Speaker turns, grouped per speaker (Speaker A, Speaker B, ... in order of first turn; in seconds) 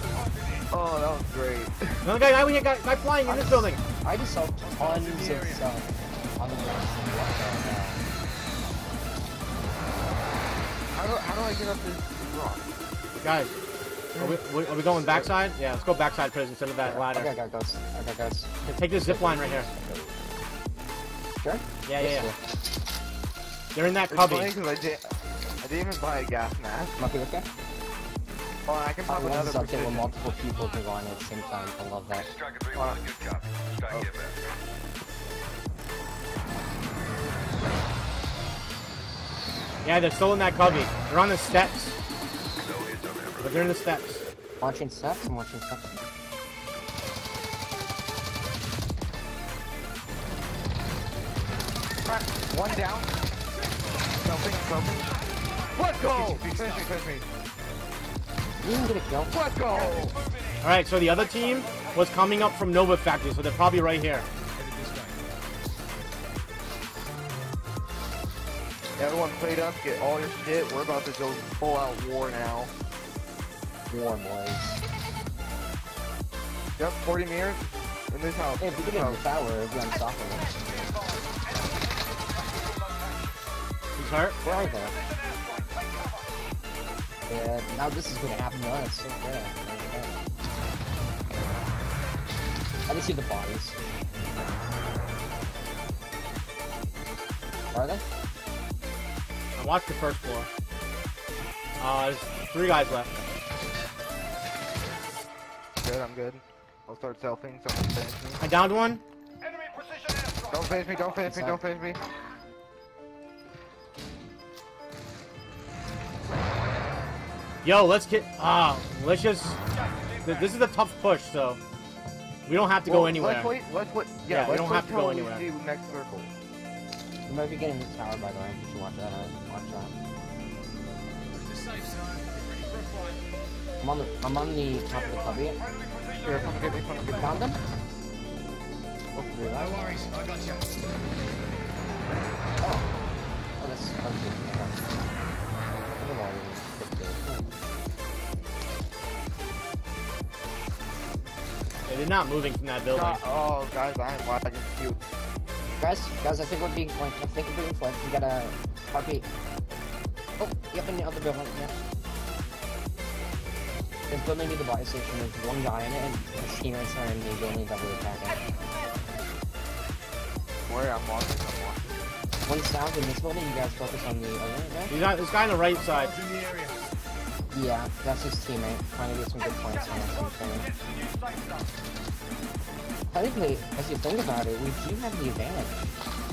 Speaker A: 0.7-2.0, 10.9-12.7, 14.1-15.3, 24.1-25.1, 25.6-26.9, 28.6-30.2, 32.7-33.0, 33.9-34.2, 52.0-53.1, 54.1-55.2, 55.7-57.2, 59.3-60.1, 69.0-72.7, 76.8-79.2, 105.8-108.5, 110.5-112.0, 122.8-126.3, 136.2-137.3, 152.9-155.0, 170.7-172.0
Speaker B: 2.0-3.8, 13.2-13.5, 14.2-17.3, 18.6-19.7, 21.8-22.3, 23.7-24.5, 39.8-41.9, 43.4-44.2, 60.6-64.3, 84.0-84.4, 99.5-100.5, 101.8-103.2, 108.4-109.0, 117.6-119.6, 120.2-121.6, 122.5-123.5, 124.3-125.5, 151.9-153.2, 174.9-176.2
Speaker C: 3.2-8.0, 16.8-20.1, 21.4-22.4, 27.0-27.4, 29.1-32.4, 44.6-45.9, 58.6-60.1, 73.9-74.8, 78.6-81.0, 84.4-85.0, 87.3-90.2, 92.9-93.8, 97.7-98.0, 111.2-111.6, 127.2-129.9, 133.8-135.6, 137.1-137.6, 139.1-140.1, 142.6-142.9, 143.6-144.8, 146.0-147.6, 155.8-159.3, 160.4-161.7, 164.1-168.5, 172.4-175.0, 177.5-180.7, 183.1-185.9
Speaker D: 5.0-5.3, 56.1-56.5, 64.8-65.1, 131.4-133.1, 140.1-140.6, 176.3-176.7